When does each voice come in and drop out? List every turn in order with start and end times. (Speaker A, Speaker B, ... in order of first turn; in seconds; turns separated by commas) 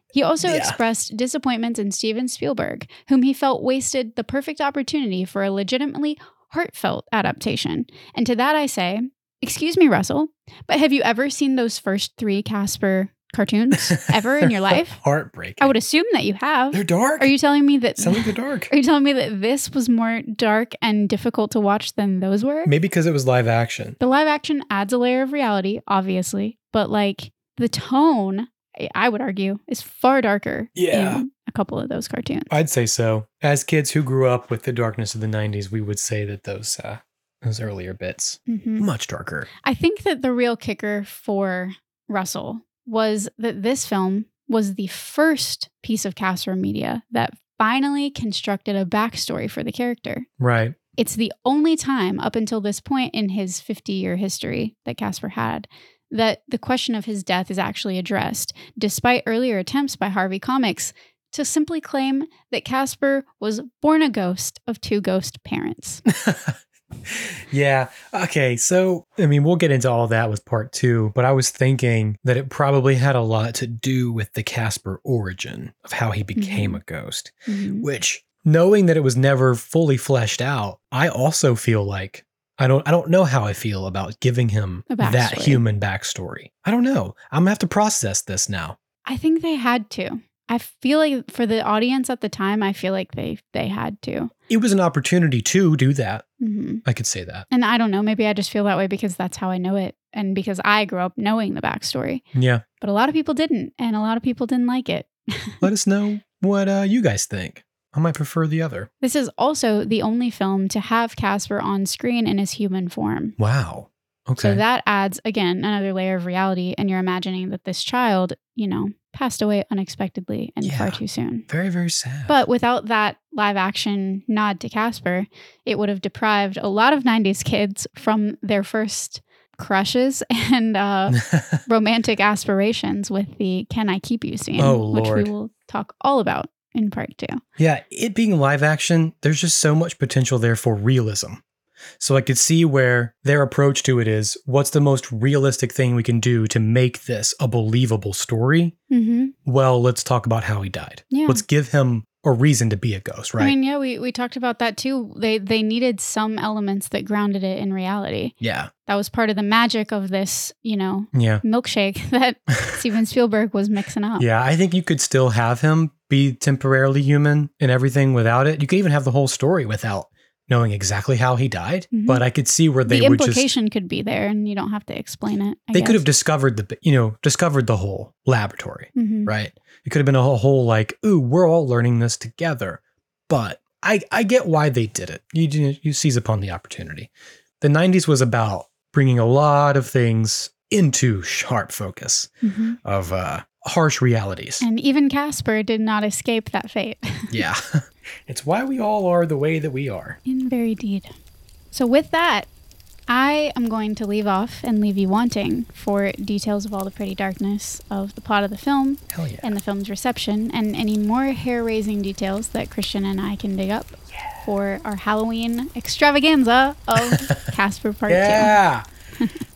Speaker A: 0.1-15.0, Speaker B: 0.4-0.8, Speaker B: 13.7-15.7, Speaker A: 15.6-22.7, Speaker B: 16.7-17.3, Speaker B: 18.0-18.7, Speaker B: 22.6-24.0, Speaker A: 24.0-32.5, Speaker B: 30.7-31.2, Speaker B: 32.5-39.5, Speaker A: 38.5-38.9, Speaker A: 39.6-50.3, Speaker B: 50.4-50.8, Speaker A: 51.0-66.0, Speaker B: 66.1-88.8, Speaker A: 76.3-76.8, Speaker A: 77.5-77.9, Speaker A: 84.9-85.6, Speaker A: 89.0-94.3, Speaker B: 94.5-96.2, Speaker A: 96.4-96.8, Speaker B: 96.8-97.5, Speaker A: 97.5-102.2, Speaker B: 102.3-102.6, Speaker A: 102.8-105.6, Speaker B: 105.6-108.9, Speaker A: 109.0-113.3, Speaker B: 113.4-114.6, Speaker A: 114.4-121.5, Speaker B: 120.6-122.4, Speaker A: 122.3-137.4, Speaker B: 131.1-131.6, Speaker B: 134.6-135.3, Speaker B: 137.6-141.4, Speaker B: 142.0-148.7, Speaker A: 148.9-149.3, Speaker B: 149.4-153.6, Speaker A: 151.1-151.4, Speaker A: 153.4-158.3, Speaker B: 158.4-158.7, Speaker A: 158.8-164.2, Speaker B: 161.1-161.4, Speaker B: 162.5-162.8, Speaker B: 164.2-173.5, Speaker A: 171.9-172.2, Speaker A: 172.8-176.0, Speaker B: 175.7-187.1, Speaker A: 178.9-179.3, Speaker B: 187.6-194.6, Speaker A: 192.4-192.8, Speaker A: 194.6-197.3, Speaker B: 197.3-200.2, Speaker A: 200.2-201.1, Speaker A: 201.7-202.5, Speaker A: 203.1-218.6, Speaker B: 209.1-209.6, Speaker B: 214.1-214.4, Speaker B: 216.9-217.5, Speaker B: 218.1-218.8